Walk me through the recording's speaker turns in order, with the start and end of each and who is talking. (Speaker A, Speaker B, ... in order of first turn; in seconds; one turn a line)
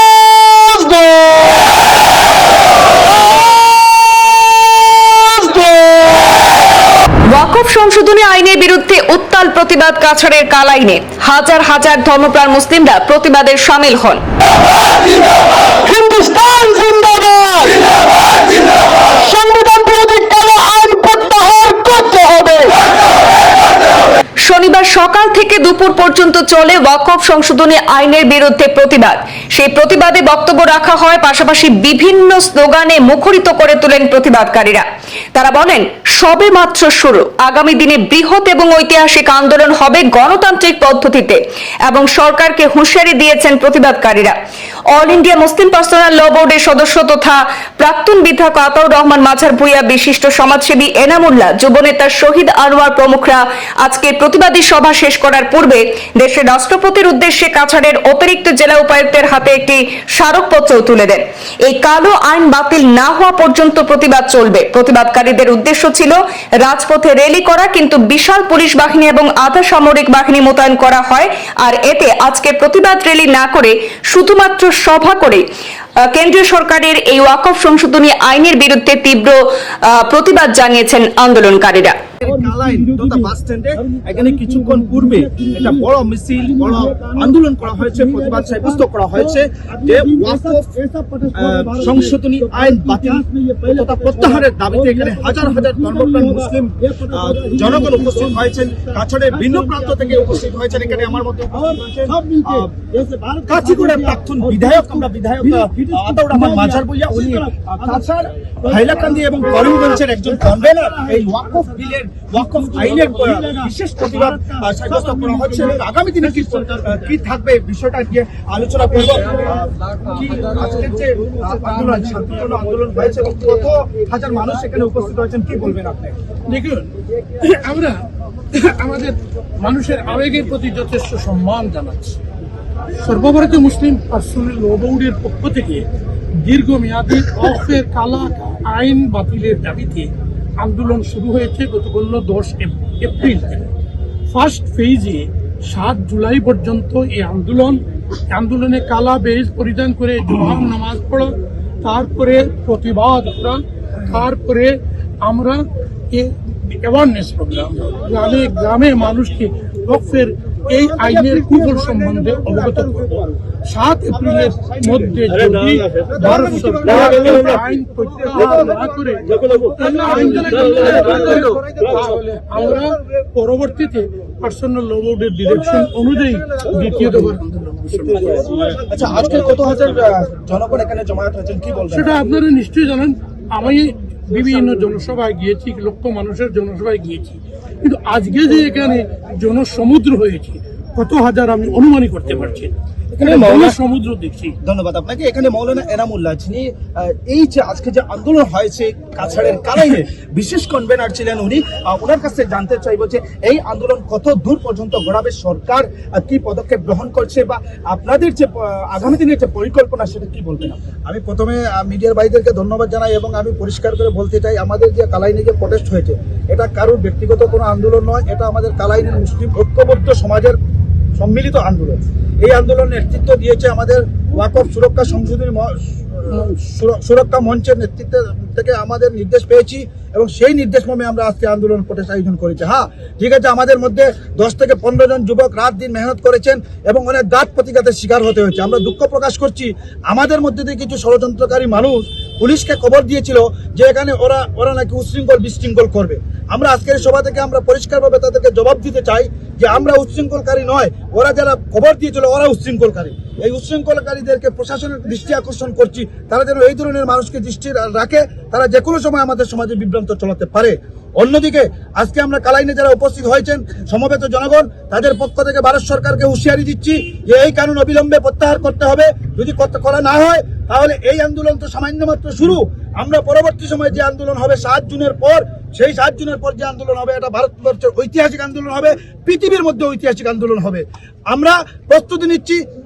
Speaker A: 0.5-1.6
Speaker A: 5.1-6.4
Speaker B: 7.3-14.2
Speaker A: 15.8-17.9
Speaker A: 18.5-22.8
Speaker B: 24.4-44.4
Speaker B: 44.9-75.4
Speaker B: 76.0-82.0
Speaker C: 82.2-90.7
Speaker D: 82.2-117.0
Speaker C: 91.3-102.7
Speaker C: 103.5-126.1
Speaker D: 119.0-119.6
Speaker D: 120.3-123.3
Speaker E: 126.5-132.2
Speaker E: 133.0-135.8
Speaker E: 136.4-143.7
Speaker E: 144.3-163.2
Speaker D: 160.9-162.7
Speaker E: 163.7-178.5
Speaker D: 166.1-167.2
Speaker C: 169.3-169.9
Speaker C: 170.5-171.5
Speaker C: 178.2-182.2
Speaker E: 181.9-194.5
Speaker C: 193.2-193.8
Speaker C: 194.6-210.8
Speaker D: 211.1-220.6
Speaker D: 221.2-282.6